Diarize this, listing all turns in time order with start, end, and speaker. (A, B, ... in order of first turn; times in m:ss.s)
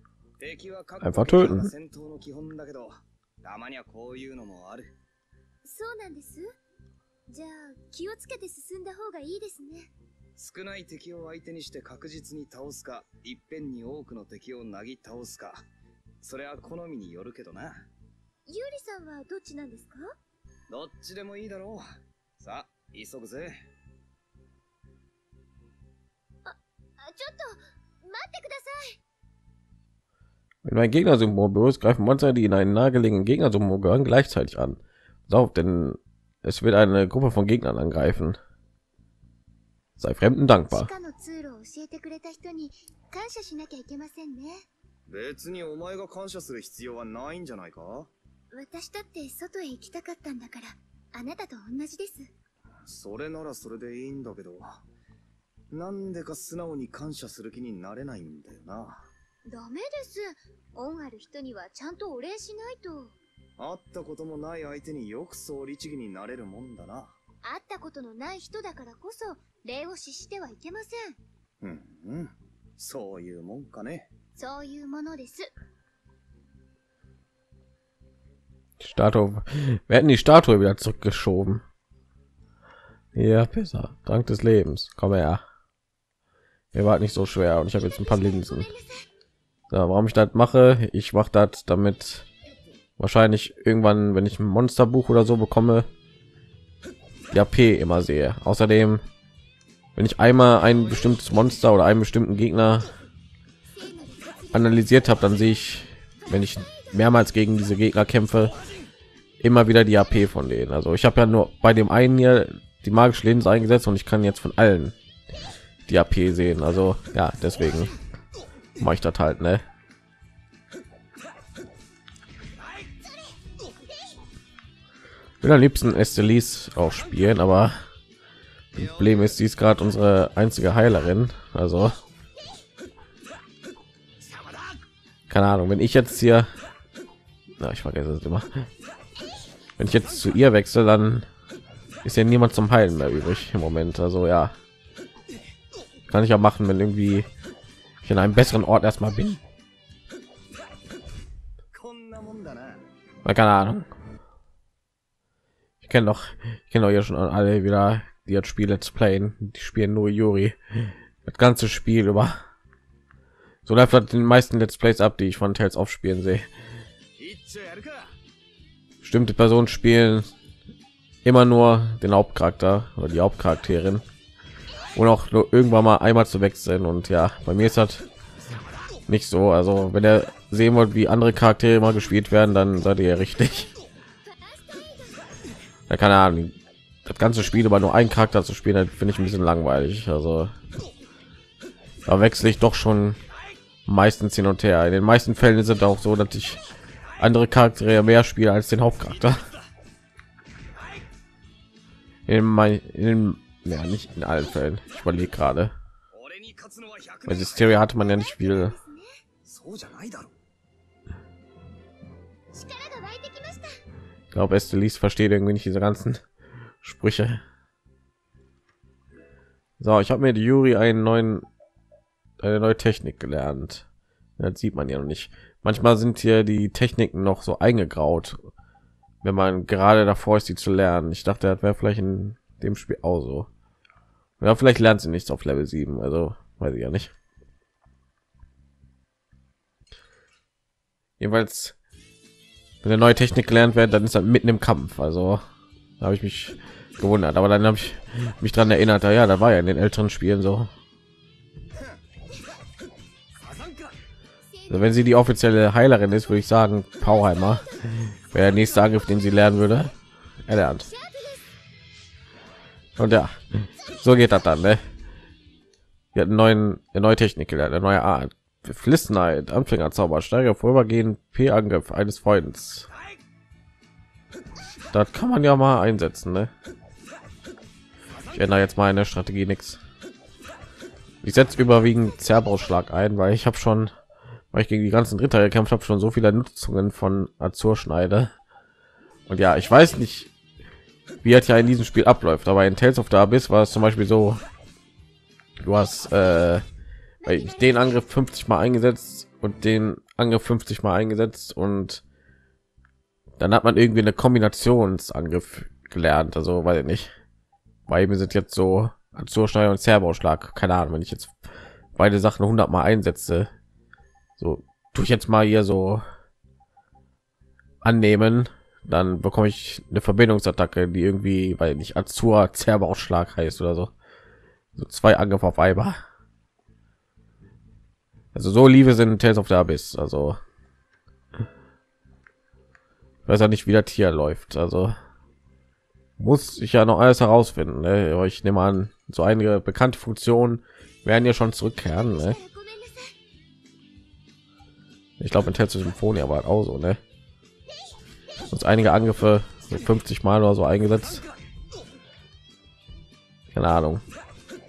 0:00.4-0:02.9 A
0:01.0-0:01.7 B
0:03.4-0:05.0 A
0:05.6-0:06.5 C
0:07.3-0:09.9 C
0:10.4-0:15.6 A
0:16.2-0:17.9 A
0:18.5-0:20.1 C
0:20.7-0:21.8 A
0:22.4-0:23.7 A
0:26.4-0:29.0 C
0:30.6-0:38.4 B
0:40.0-0:40.9 B
0:40.7-0:44.7 C
0:45.1-0:48.1 A
0:48.5-0:52.3 C
0:52.9-0:54.7 A
0:55.7-0:59.1 A
0:59.5-1:03.2 C
1:03.6-1:07.2 A
1:07.4-1:11.2 C
1:11.6-1:14.1 A
1:14.4-1:15.5 C
1:18.8-1:21.6 B
1:23.2-1:25.4 B
1:26.7-1:28.7 B
1:27.7-1:29.1 C
1:29.7-1:32.3 B
1:33.0-1:35.9 B
1:37.3-1:39.0 B
1:40.0-1:42.9 B
1:43.7-1:44.8 C
1:44.5-1:48.5 B
1:49.4-1:55.0 B
1:55.9-1:58.0 B
1:58.8-1:59.6 B
2:05.4-2:07.8 B
2:08.7-2:12.0 B
2:08.8-2:09.2 A
2:15.3-2:16.5 B
2:17.6-2:18.7 B
2:19.8-2:21.3 B
2:22.0-2:24.6 B
2:26.1-2:27.3 B
2:28.0-2:29.4 B
2:31.7-2:32.8 A
2:33.2-2:33.9 B
2:35.8-2:42.4 B
2:43.7-2:46.5 B
2:47.2-2:48.1 A
2:49.0-2:50.3 B
2:51.2-2:54.0 B
2:55.0-2:58.1 B
2:59.1-3:03.7 B
3:04.2-3:05.3 C
3:05.9-3:10.6 B
3:12.1-3:13.2 B
3:13.9-3:16.6 B
3:17.2-3:19.5 B
3:19.0-3:19.6 A
3:22.3-3:25.8 B
3:26.1-3:27.9 A
3:27.3-3:28.8 B
3:27.9-3:29.2 C
3:29.4-3:30.4 A
3:32.5-3:33.8 C
3:34.3-3:36.2 B
3:36.8-3:37.4 B
3:39.8-3:41.5 B
3:42.4-3:43.9 B
3:44.4-3:48.4 B
3:49.2-3:53.5 B
3:54.4-3:57.1 B
4:01.2-4:01.8 B
4:02.8-4:05.4 B
4:06.0-4:10.7 B
4:14.7-4:19.9 B
4:20.4-4:20.9 B
4:20.9-4:21.5 C
4:23.0-4:24.8 B
4:26.1-4:32.9 B
4:34.9-4:36.5 B
4:38.3-4:39.8 B
4:41.2-4:43.9 B
4:44.5-4:48.3 B
4:49.3-4:50.3 B
4:51.2-4:54.4 B
4:55.6-4:56.6 B
4:57.2-4:57.7 C
4:57.2-5:02.0 B
5:03.4-5:07.1 B
5:07.9-5:11.3 B
5:12.0-5:13.5 B
5:14.4-5:16.0 B
5:17.8-5:23.9 B
5:24.8-5:26.0 B
5:28.3-5:30.4 B
5:33.3-5:35.0 B
5:36.2-5:42.4 B
5:41.9-5:43.2 C
5:45.2-5:47.0 B
5:48.5-5:51.3 B
5:53.5-5:54.0 B